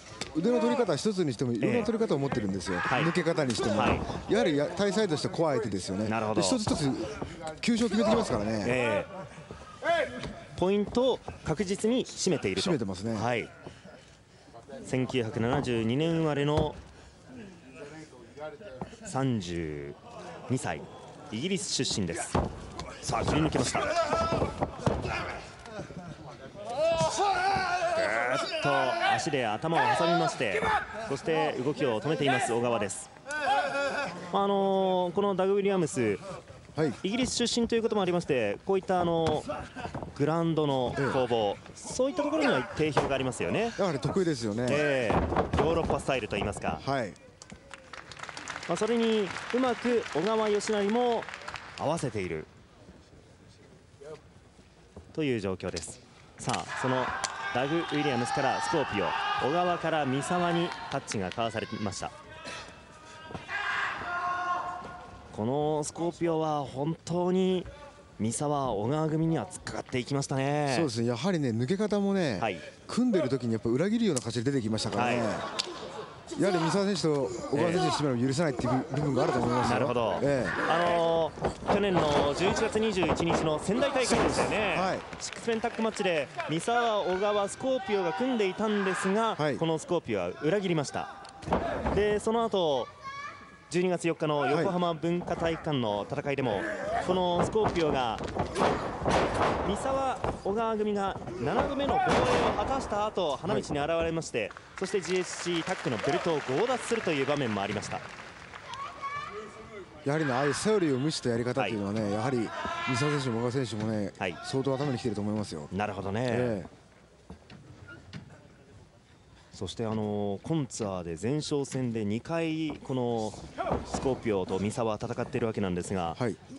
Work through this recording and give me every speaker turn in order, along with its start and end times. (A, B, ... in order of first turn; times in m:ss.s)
0:00.3-0:08.8 A
0:01.6-0:01.9 B
0:02.9-0:03.1 B
0:03.7-0:04.1 B
0:06.1-0:06.6 B
0:08.6-0:09.1 B
0:10.6-0:13.5 B
0:12.6-0:13.3 A
0:14.8-0:16.8 B
0:19.0-0:20.0 B
0:20.5-0:22.4 B
0:23.0-0:23.9 B
0:27.9-0:33.1 B
0:34.3-0:36.2 B
0:37.0-0:39.5 B
0:40.2-0:43.8 B
0:41.0-0:41.2 A
0:43.8-0:44.8 A
0:44.7-0:46.8 B
0:46.8-0:47.2 A
0:48.7-0:52.5 B
0:55.1-1:02.1 B
1:05.3-1:10.9 B
1:10.7-1:15.5 A
1:12.4-1:12.6 B
1:15.0-1:15.3 B
1:16.4-1:20.6 A
1:17.5-1:17.8 B
1:19.6-1:31.1 B
1:24.3-1:25.1 A
1:29.4-1:29.6 A
1:31.9-1:32.9 B
1:33.7-1:38.2 B
1:39.6-1:48.0 B
1:50.0-1:55.7 A
1:55.7-1:56.6 B
1:56.3-1:56.7 A
1:59.5-2:06.2 B